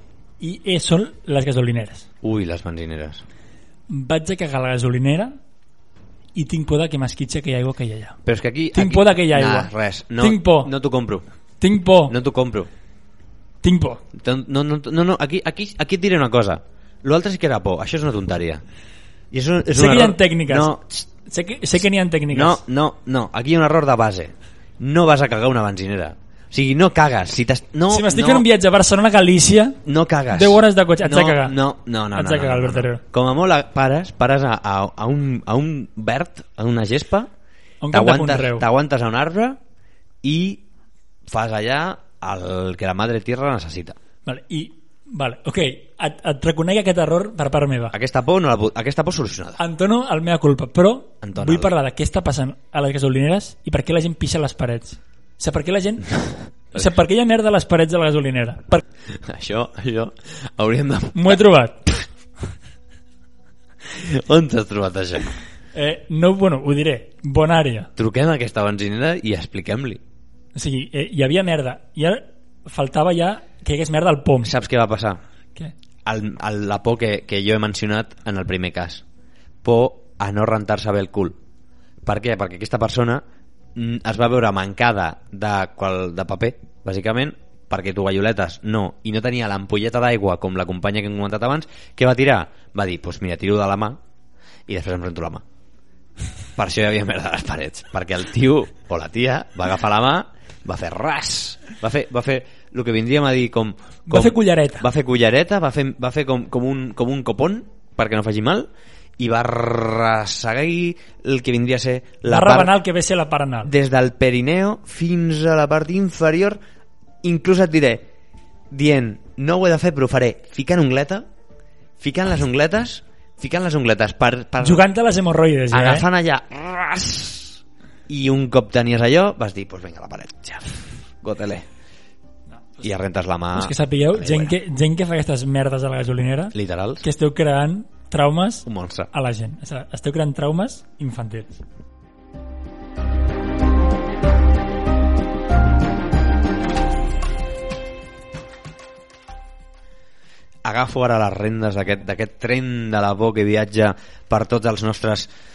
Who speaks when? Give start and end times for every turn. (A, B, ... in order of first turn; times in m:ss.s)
0:00.4-0:02.1 A
0:02.2-0:03.2 B
0:03.9-0:05.4 A
0:06.4-0:08.2 A
0:08.2-0:11.3 B
0:08.7-0:10.7 A
0:11.6-0:12.2 A
0:12.1-0:12.7 B
0:13.6-0:14.0 A
0:14.1-0:18.6 B
0:19.3-0:21.1 B
0:19.7-0:22.6 A
0:22.3-0:28.5 B
0:27.9-0:29.8 A
0:29.8-0:37.3 B
0:30.3-0:31.6 A
0:32.1-0:33.0 A
0:37.8-0:38.7 A
0:37.9-0:39.6 B
0:40.2-0:40.6 B
0:41.3-0:44.0 B
0:44.3-0:48.0 A
0:47.9-0:49.6 B
0:49.6-0:56.2 A
0:51.2-0:51.7 B
0:56.7-0:58.8 A
0:59.2-1:02.0 B
1:01.1-1:01.8 A
1:03.9-1:05.3 B
1:05.7-1:07.9 A
1:08.0-1:10.0 B
1:10.6-1:14.5 A
1:14.4-1:15.2 B
1:16.0-1:19.0 B
1:19.6-1:21.4 B
1:22.0-1:34.0 B
1:34.7-1:35.4 B
1:36.6-1:52.8 B
1:44.1-1:44.9 A
1:52.3-1:53.7 A
1:53.6-1:56.6 B
1:57.2-1:58.1 B
1:58.7-2:01.3 B
2:02.0-2:04.9 B
2:04.6-2:06.1 A
2:05.7-2:11.7 B
2:12.8-2:14.6 B
2:13.6-2:21.6 A
2:16.5-2:17.0 B
2:18.7-2:19.1 B
2:30.6-2:35.3 B